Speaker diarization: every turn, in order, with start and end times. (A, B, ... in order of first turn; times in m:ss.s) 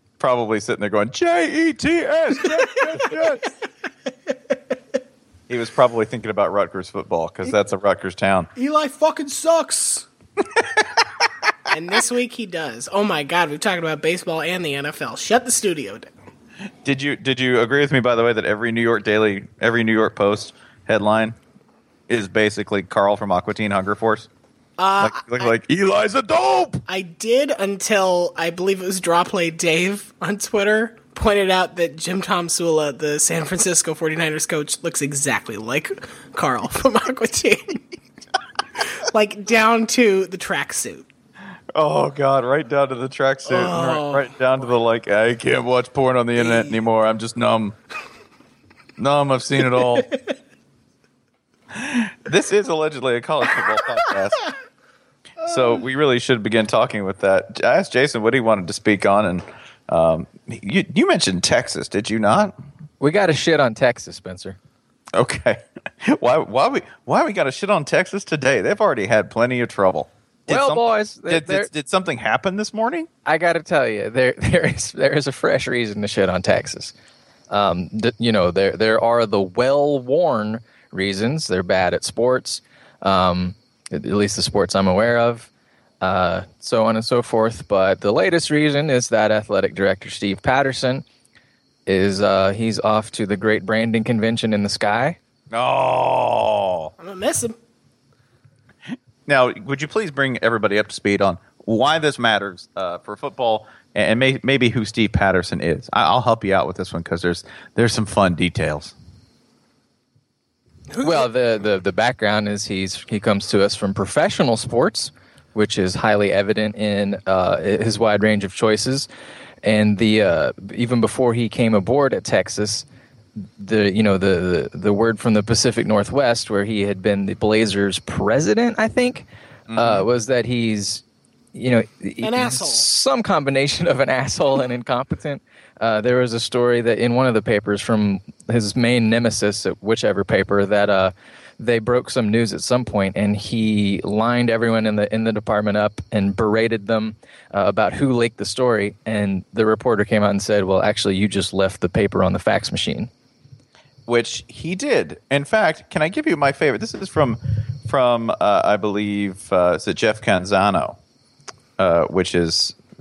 0:00.2-0:03.5 A
0:04.3-0:04.5 B
0:05.5-0:08.5 A
0:08.6-0:10.0 B
0:11.7-0:16.1 B
0:16.8-0:21.4 A
0:22.1-0:24.3 A
0:24.8-0:25.5 B
0:25.0-0:26.8 A
0:26.9-0:37.8 B
0:38.9-0:41.0 B
0:41.7-0:47.7 A
0:43.4-0:44.3 B
0:46.4-0:46.8 B
0:49.0-0:50.1 A
0:49.8-0:50.3 B
0:51.7-0:54.5 A
0:55.4-1:02.5 A
0:55.4-0:55.8 B
1:03.0-1:04.6 C
1:05.1-1:13.1 A
1:10.5-1:11.7 C
1:13.2-1:16.9 C
1:17.5-1:25.5 C
1:26.0-1:31.0 C
1:31.8-1:35.2 C
1:35.5-1:36.9 A
1:37.0-1:37.6 B
1:39.3-1:48.9 A
1:50.9-1:51.3 B
1:51.0-1:59.1 C
1:59.6-2:02.8 C
2:03.6-2:11.0 C
2:09.7-2:10.1 A
2:11.5-2:33.1 C
2:12.2-2:12.8 B
2:34.1-2:41.0 A
2:41.8-2:42.8 A